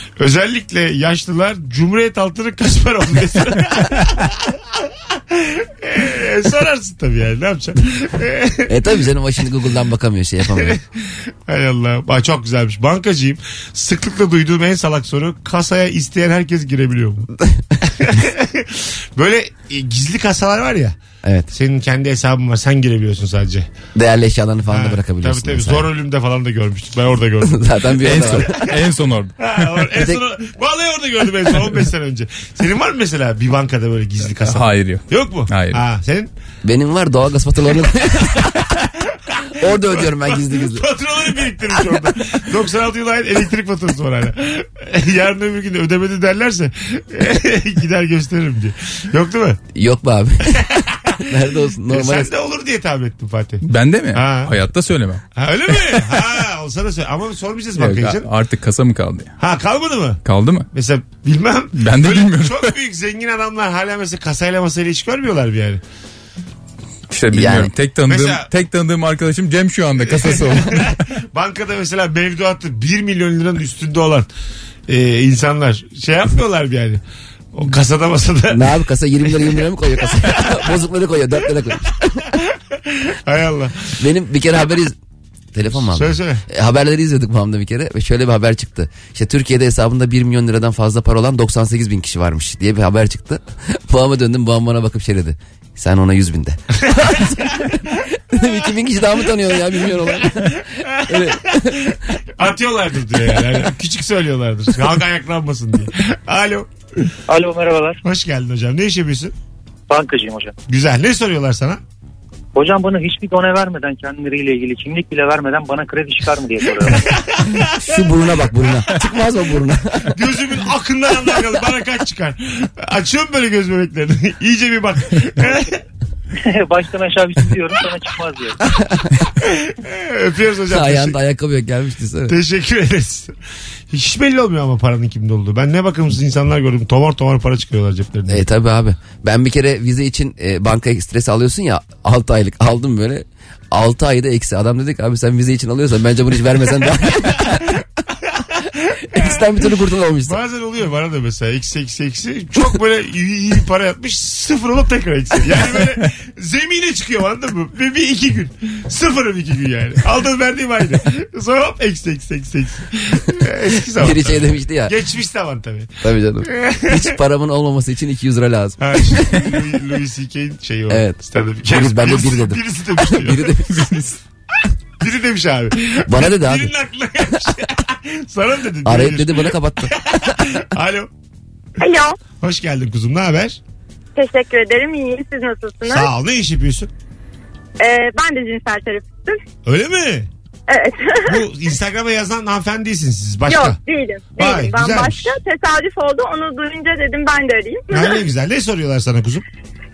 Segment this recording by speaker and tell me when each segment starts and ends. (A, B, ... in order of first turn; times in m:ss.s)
0:00.2-0:08.8 A
0:08.7-0:10.8 B
0:10.6-0:17.3 A
0:17.4-0:17.6 B
0:17.8-0:21.0 A
0:21.2-0:21.5 B
0:21.5-0:23.7 A
0:24.0-0:25.9 B
0:24.7-0:28.8 A
0:27.4-0:28.6 B
0:28.0-0:29.8 C
0:29.4-0:36.3 A
0:34.4-0:35.8 C
0:36.6-0:38.7 B
0:39.1-0:49.6 A
0:39.6-0:40.8 B
0:49.8-0:52.3 B
0:50.5-0:51.3 A
0:51.9-0:54.5 A
0:53.6-0:55.2 C
0:55.4-0:58.3 A
0:55.9-0:56.2 C
0:57.8-0:59.3 C
0:59.4-1:05.8 A
1:00.2-1:00.7 C
1:01.8-1:02.7 C
1:07.1-1:11.0 C
1:07.3-1:07.7 B
1:08.1-1:08.5 A
1:10.0-1:14.3 A
1:14.9-1:17.0 A
1:17.5-1:18.8 A
1:18.5-1:22.3 B
1:19.3-1:19.6 A
1:20.2-1:20.6 A
1:22.7-1:23.9 A
1:24.0-1:25.0 B
1:25.5-1:42.0 B
1:25.7-1:26.4 A
1:36.9-1:37.5 A
1:40.2-1:46.7 A
1:47.3-1:48.0 D
1:48.0-1:49.3 A
1:49.9-1:50.5 D
1:50.7-1:51.8 A
1:52.6-1:57.0 D
1:56.9-1:58.0 A
1:57.7-2:00.1 B
2:00.1-2:05.8 A
2:06.4-2:08.6 D
2:08.6-2:09.2 B
2:09.4-2:11.2 A
2:10.7-2:12.4 B
2:12.3-2:13.3 A
2:13.9-2:18.4 A
2:18.3-2:27.8 B
2:28.3-2:29.7 A
2:29.1-2:30.4 B
2:30.2-2:47.2 A
2:44.0-2:44.9 B
2:46.0-2:49.4 B
2:48.8-2:53.7 A
2:50.9-2:54.1 B
2:55.0-3:01.1 A
2:56.1-2:56.7 B
2:58.8-3:00.0 B
3:01.8-3:02.2 E
3:02.4-3:03.6 A
3:04.2-3:06.1 E
3:05.9-3:06.9 A
3:07.8-3:09.4 E
3:09.6-3:10.3 A
3:10.7-3:11.5 E
3:11.3-3:13.8 A
3:13.5-3:18.2 E
3:14.4-3:15.4 A
3:17.9-3:19.4 A